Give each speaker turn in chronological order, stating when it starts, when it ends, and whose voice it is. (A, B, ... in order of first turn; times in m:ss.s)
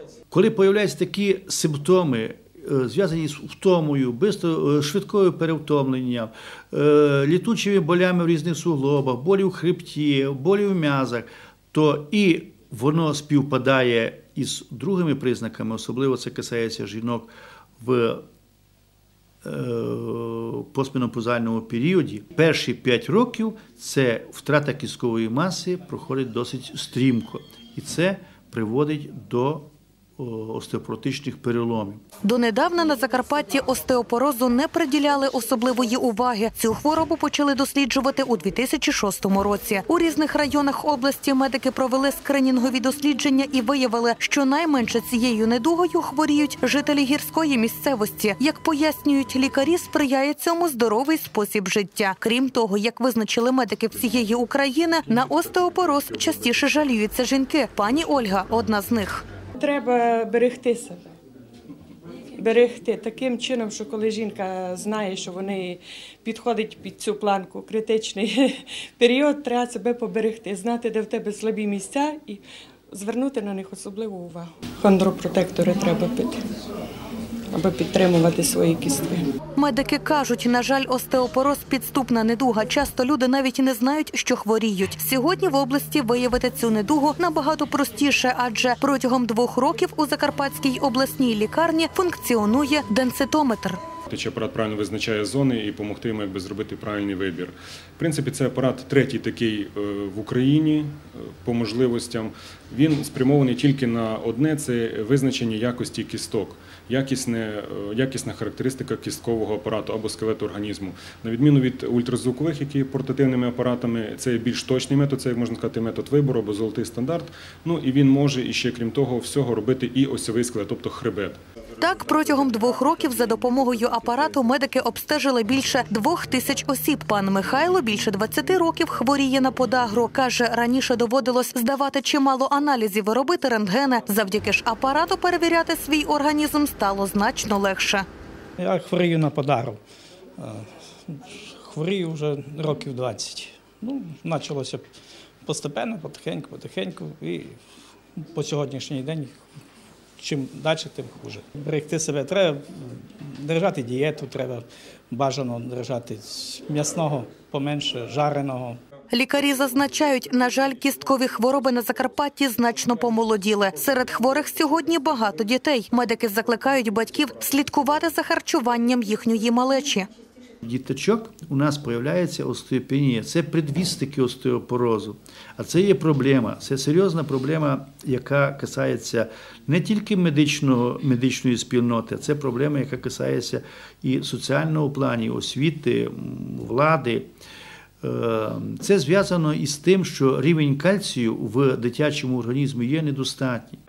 0:00.3-0:18.2 A
0:19.4-0:32.0 A
0:32.2-0:59.2 B
0:59.6-1:01.0 C
1:02.3-1:16.4 C
1:17.5-1:19.3 C
1:19.6-1:33.8 B
1:34.1-2:01.4 D
2:01.8-2:18.0 B
2:18.6-2:19.8 E
2:20.4-2:24.8 E
2:25.4-2:27.6 E
2:28.2-2:29.4 E
2:30.2-2:38.8 E
2:39.1-2:50.1 B
2:50.6-3:07.3 A
3:08.0-3:13.8 A